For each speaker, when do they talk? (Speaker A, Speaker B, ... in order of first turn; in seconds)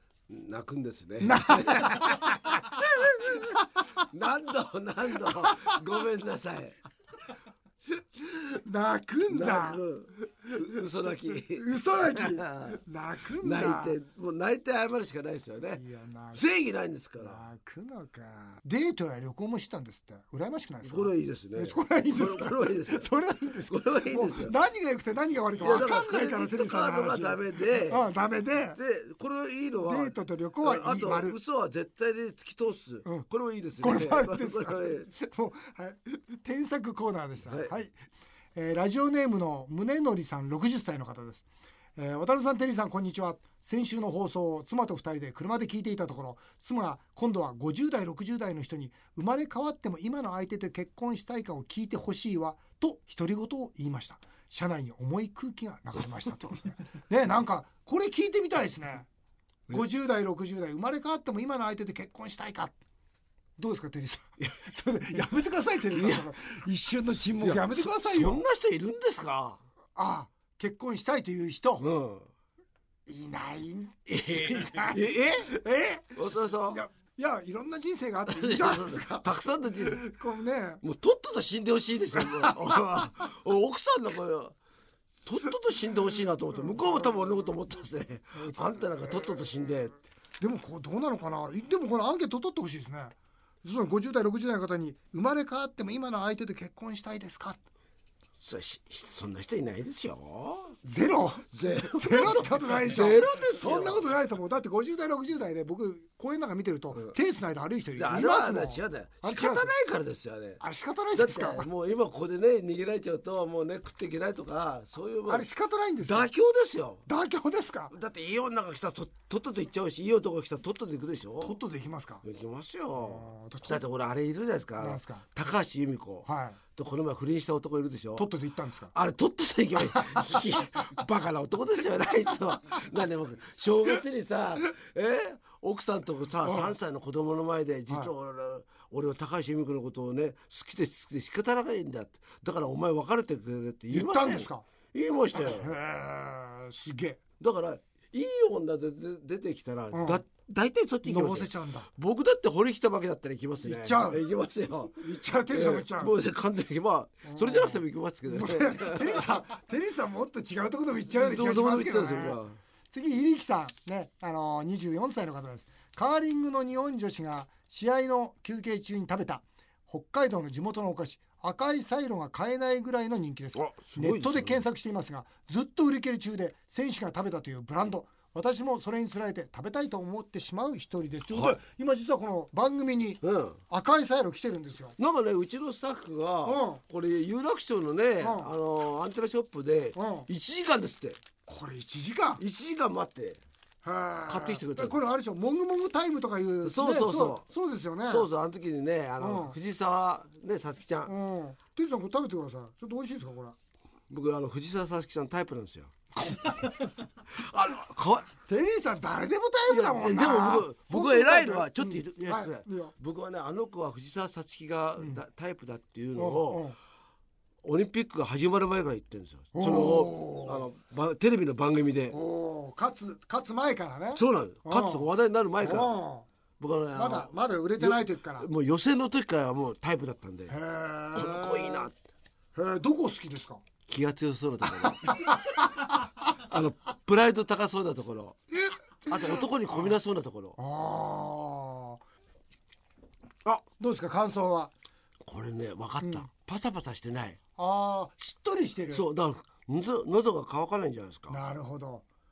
Speaker A: 0.3-6.8, 9.3-12.8, 13.4-15.8, 16.3-17.4, 20.8-23.1, 23.7-24.5, 25.6-28.1, 28.7-35.1, 37.5-37.7, 65.9-66.3, 67.4-69.6, 71.8-72.3, 74.1-75.5, 76.2-76.8, 78.3-80.0, 80.8-84.5, 85.2-90.0, 98.4-100.8, 101.5-104.0, 108.0-110.6, 111.1-115.5, 116.0-117.0, 117.9-121.5, 122.2-128.3, 128.9-145.7, 147.4-159.3, 161.1-162.6, 173.5-174.6, 181.3-181.6, 183.2-183.6, 185.0-191.2, 192.4-193.4, 194.3-195.0, 196.6-197.4, 198.1-201.1, 204.1-205.9, 207.3-208.3, 209.7-216.7, 217.6-222.2, 224.1-225.9, 226.6-230.5, 231.1-231.9, 233.9-235.4, 236.3-238.4, 239.1-240.6, 245.2-247.4, 248.9-251.4
Speaker B: 1.2-3.5, 5.3-5.8, 8.3-9.8, 11.4-14.0, 15.7-16.4, 17.2-28.8, 29.8-31.4, 33.8-37.9, 38.5-59.1, 59.7-62.7, 63.6-68.4, 69.9-71.8, 73.1-80.8, 82.2-82.8, 86.5-87.2, 88.3-89.5, 90.4-97.6, 100.8-109.7, 110.6-111.7, 115.3-116.3, 117.1-117.9, 121.4-122.2, 123.0-123.8, 124.8-125.3, 126.2-126.6, 128.2-128.9, 129.9-130.3, 136.4-136.7, 143.9-144.7, 145.3-147.2, 149.9-150.2, 151.0-151.9, 153.6-154.2, 155.0-156.1, 157.2-162.4, 162.9-185.0, 186.4-186.8, 188.2-188.5, 189.9-190.3, 191.4-192.4, 193.8-198.3, 199.2-199.6, 201.1-203.6, 206.2-206.6, 208.5-212.9, 216.2-216.8, 219.5-220.7, 222.1-225.1, 225.6-226.2, 226.9-228.5, 230.5-231.9, 232.5-233.6, 234.8-235.6, 239.1-239.9, 240.6-242.0, 243.8-244.7, 246.0-246.3, 247.6-249.0, 251.3-252.0